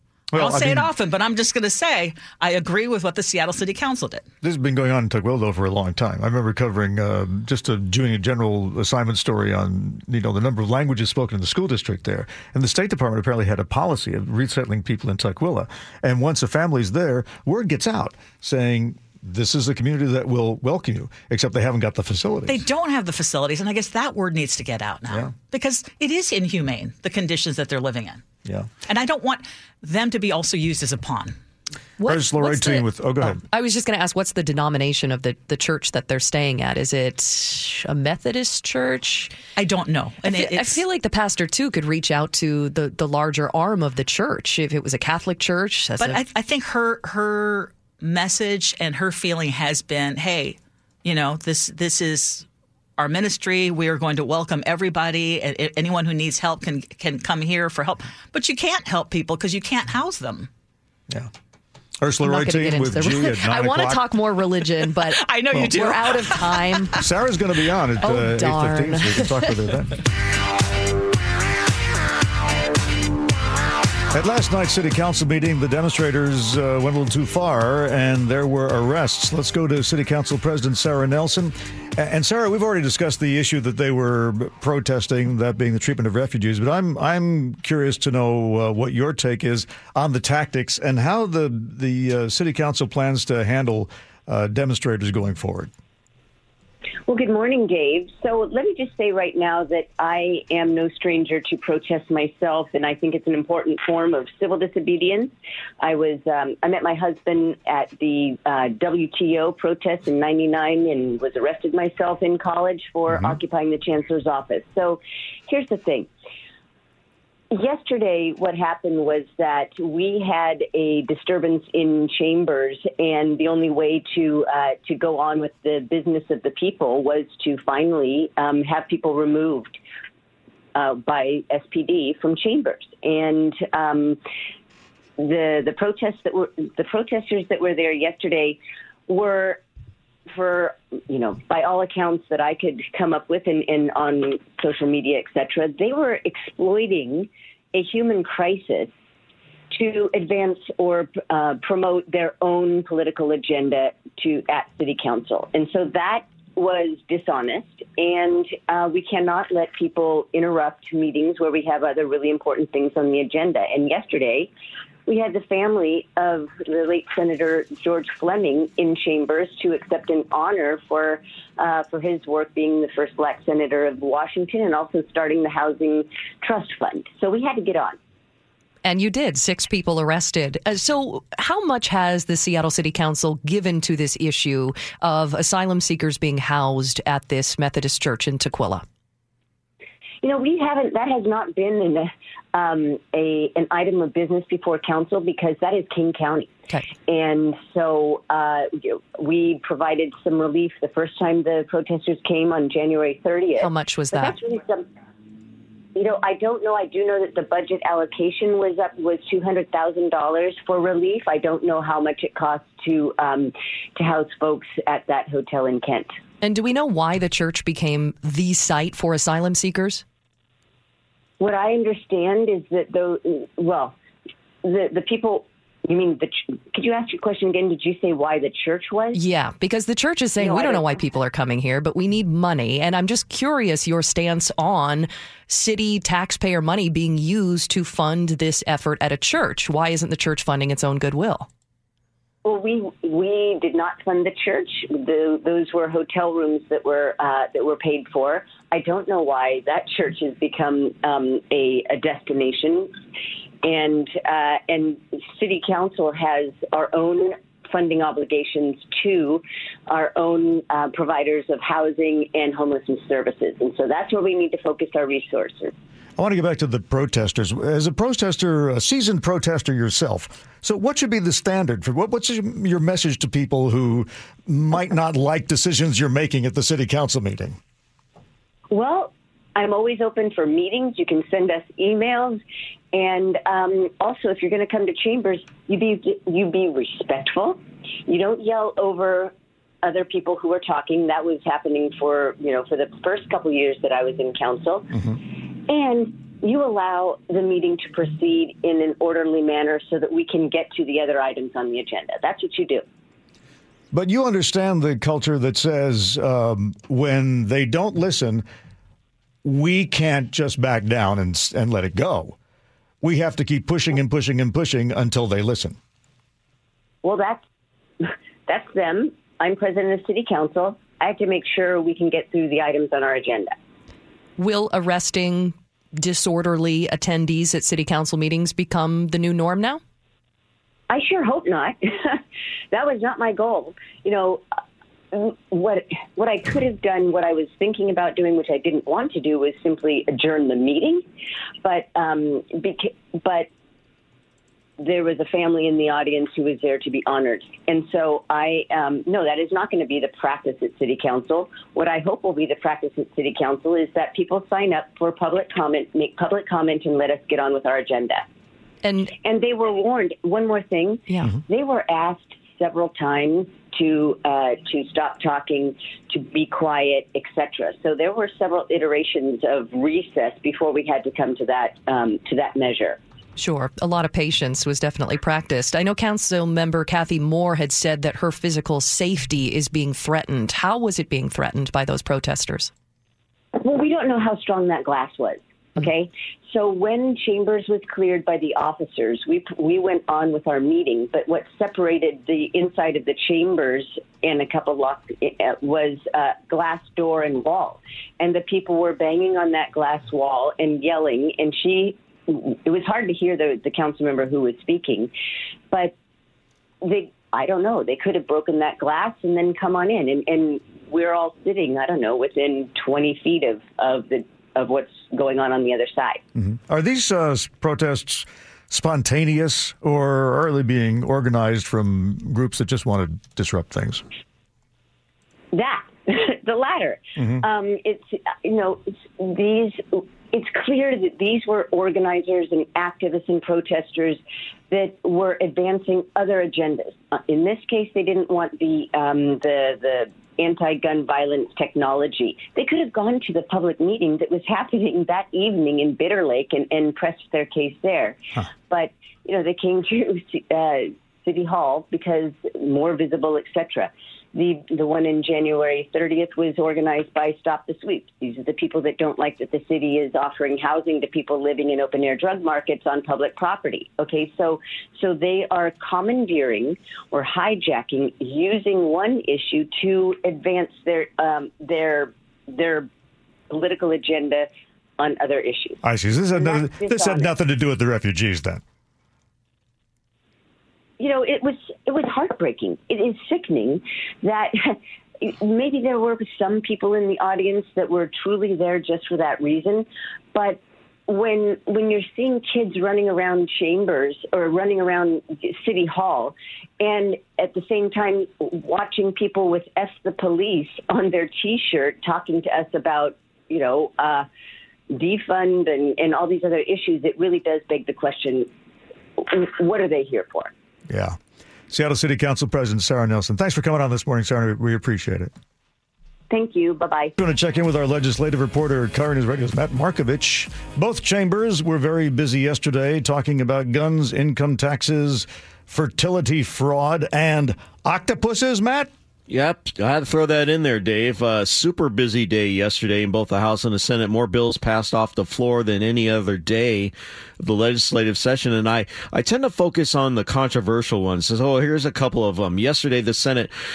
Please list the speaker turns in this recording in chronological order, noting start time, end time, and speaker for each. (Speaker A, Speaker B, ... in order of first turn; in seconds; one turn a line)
Speaker A: 0.3-0.9
Speaker B: 0.3-4.2
Speaker A: 4.4-22.6
Speaker B: 22.5-28.2
Speaker B: 28.9-31.4
Speaker C: 32.0-39.3
Speaker A: 32.0-33.4
Speaker B: 39.6-40.8
Speaker C: 40.3-46.2
Speaker B: 46.0-52.4
Speaker B: 53.0-60.5
Speaker A: 62.0-64.1
Speaker C: 62.2-66.9
Speaker B: 65.1-66.8
Speaker A: 67.0-70.0
Speaker C: 68.0-69.5
Speaker A: 74.1-95.7
Speaker D: 97.1-116.1
Speaker A: 113.1-113.4
Speaker D: 117.5-129.8
Speaker D: 130.7-134.2
Speaker D: 135.2-139.6
Speaker D: 140.3-148.9
Speaker D: 149.7-164.5
Speaker D: 165.1-177.9
Speaker C: 178.8-188.8
Speaker D: 190.2-196.5
Speaker D: 197.1-204.8
Speaker C: 203.6-204.4
Speaker D: 205.9-216.1
Speaker C: 216.4-220.0
Speaker D: 221.4-223.9
Speaker D: 224.6-229.2
Speaker C: 229.1-241.5
Speaker D: 230.4-231.0
Speaker D: 242.4-252.9
Speaker D: 253.6-265.7
Speaker A: 266.2-277.6
Speaker D: 278.7-282.4
Speaker D: 282.9-294.9
Speaker D: 295.7-302.8
Speaker A: 303.9-308.4
Speaker A: 309.4-312.4
Speaker A: 313.0-315.8
Speaker D: 317.0-317.4
Speaker D: 318.0-323.5
Speaker C: 324.4-329.8
Speaker D: 330.9-332.2
Speaker D: 332.7-334.4
Speaker D: 335.1-341.0
Speaker D: 341.6-343.5
Speaker D: 344.8-358.2
Speaker C: 358.8-359.1
Speaker D: 359.2-373.0
Speaker C: 373.4-382.7
Speaker D: 383.6-405.1
Speaker D: 406.8-416.2
Speaker A: 416.4-424.0
Speaker D: 425.5-472.9
Speaker A: 427.1-427.4
Speaker D: 473.5-474.5
Speaker D: 475.0-475.8
Speaker A: 475.8-478.6
Speaker D: 476.3-477.3
Speaker D: 481.0-504.2
Speaker D: 504.9-508.5
Speaker D: 509.2-510.5
Speaker A: 510.9-511.1
Speaker A: 511.7-515.3
Speaker D: 516.3-517.1
Speaker A: 517.2-528.9
Speaker E: 529.3-543.5